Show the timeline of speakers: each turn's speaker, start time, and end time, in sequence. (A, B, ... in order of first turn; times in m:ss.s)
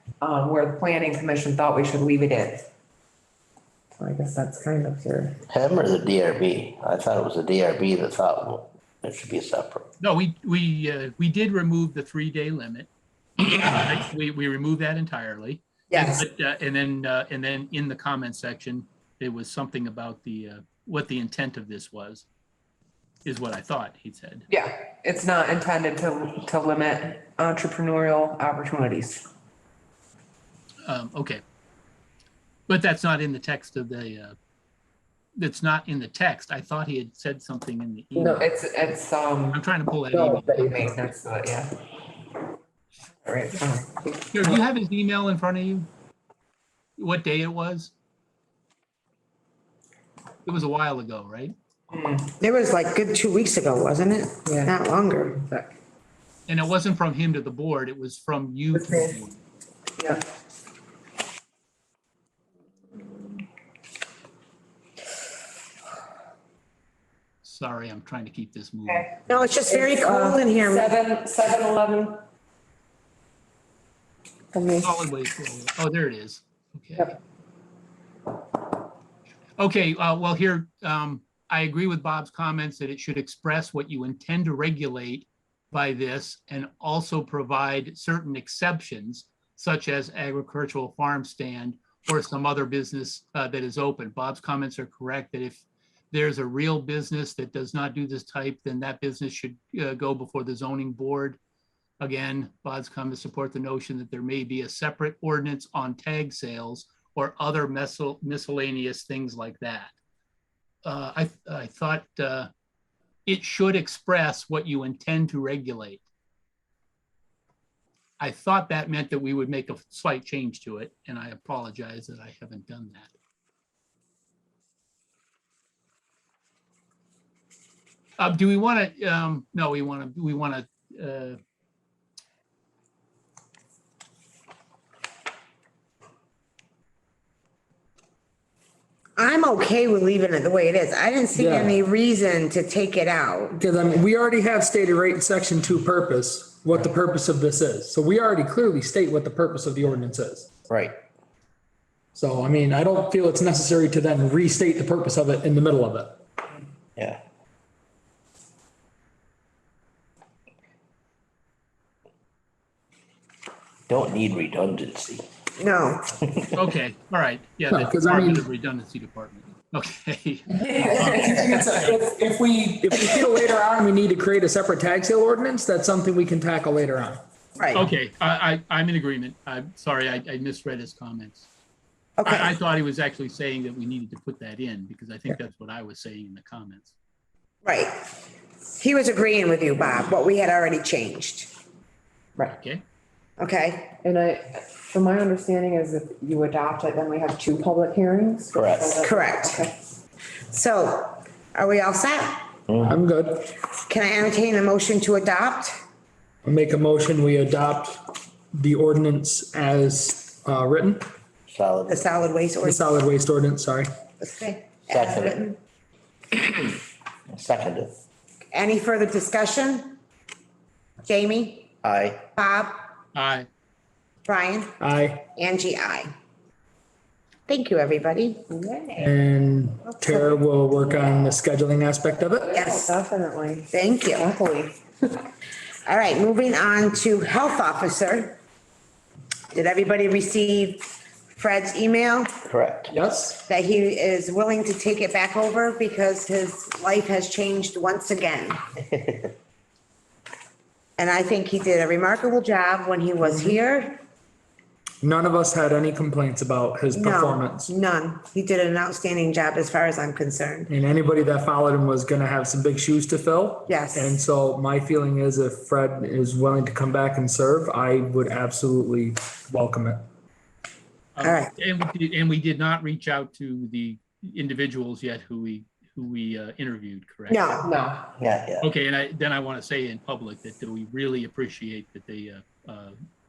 0:00.2-0:02.7 A
0:04.0-0:05.4 A
0:05.5-0:09.9 B
0:10.0-0:12.9 C
0:13.5-0:22.2 C
0:15.9-0:16.2 D
0:23.2-0:24.5 C
0:24.5-0:29.3 A
0:30.8-0:31.4 C
0:32.7-0:34.4 C
0:35.4-0:38.5 C
0:38.1-0:41.8 A
0:39.5-0:41.0 C
0:43.2-0:44.5 A
0:44.3-0:45.9 C
0:47.0-0:47.9 C
0:50.4-0:51.5 C
0:51.9-0:52.3 A
0:52.4-0:55.4 D
0:54.4-0:55.8 A
0:56.5-0:59.4 C
0:58.7-0:59.2 A
1:07.4-1:09.1 C
1:09.3-1:10.9 D
1:09.7-1:12.2 A
1:14.5-1:14.9 A
1:14.8-1:17.1 C
1:19.6-1:41.4 C
1:42.0-1:49.9 C
1:50.8-1:52.5 C
1:53.2-1:56.0 C
1:58.2-2:03.1 C
2:08.2-2:11.4 C
2:19.2-2:23.6 D
2:21.3-2:21.7 E
2:23.5-2:30.5 E
2:30.7-2:30.9 B
2:32.1-2:36.2 E
2:43.9-2:45.2 B
2:45.6-2:46.1 D
2:46.6-2:52.0 C
2:47.7-2:48.4 E
2:50.5-2:51.6 A
2:51.2-2:57.2 E
2:57.6-2:57.9 D
2:57.7-3:01.5 C
3:02.2-3:02.5 D
3:02.2-3:06.9 C
3:07.6-3:07.9 D
3:08.8-3:11.5 D
3:12.4-3:12.8 C
3:13.4-3:13.9 D
3:14.0-3:19.8 A
3:18.5-3:19.0 B
3:19.0-3:19.6 D
3:20.5-3:22.5 D
3:22.7-3:22.9 B
3:22.8-3:23.5 E
3:23.8-3:25.8 D
3:26.4-3:31.1 E
3:31.5-3:32.1 B
3:31.9-3:32.8 D
3:32.6-3:33.9 E
3:34.2-3:35.6 D
3:34.9-3:35.4 B
3:36.3-3:36.8 B
3:37.3-3:37.9 B
3:38.5-3:40.0 D
3:41.0-3:41.7 D
3:41.8-3:42.2 B
3:42.4-3:42.8 D
3:43.1-3:43.5 C
3:44.2-3:44.7 D
3:44.8-3:45.3 E
3:45.3-3:46.1 D
3:47.5-3:48.4 D
3:48.5-3:49.1 A
3:49.0-3:52.5 E
3:49.9-3:50.3 D
3:52.4-3:55.2 A
3:52.5-3:52.9 D
3:53.7-3:54.3 D
3:55.8-3:58.4 D
3:59.5-4:02.3 D
4:02.5-4:02.9 B
4:02.9-4:03.4 E
4:03.4-4:08.6 D
4:11.0-4:14.0 D
4:13.2-4:13.6 E
4:15.0-4:17.7 E
4:16.9-4:20.7 D
4:20.7-4:30.0 E
4:23.7-4:24.2 D
4:31.2-4:37.6 C
4:31.2-4:31.5 D
4:37.3-4:37.7 D
4:37.6-4:38.1 A
4:38.2-4:38.6 B
4:38.6-4:43.0 C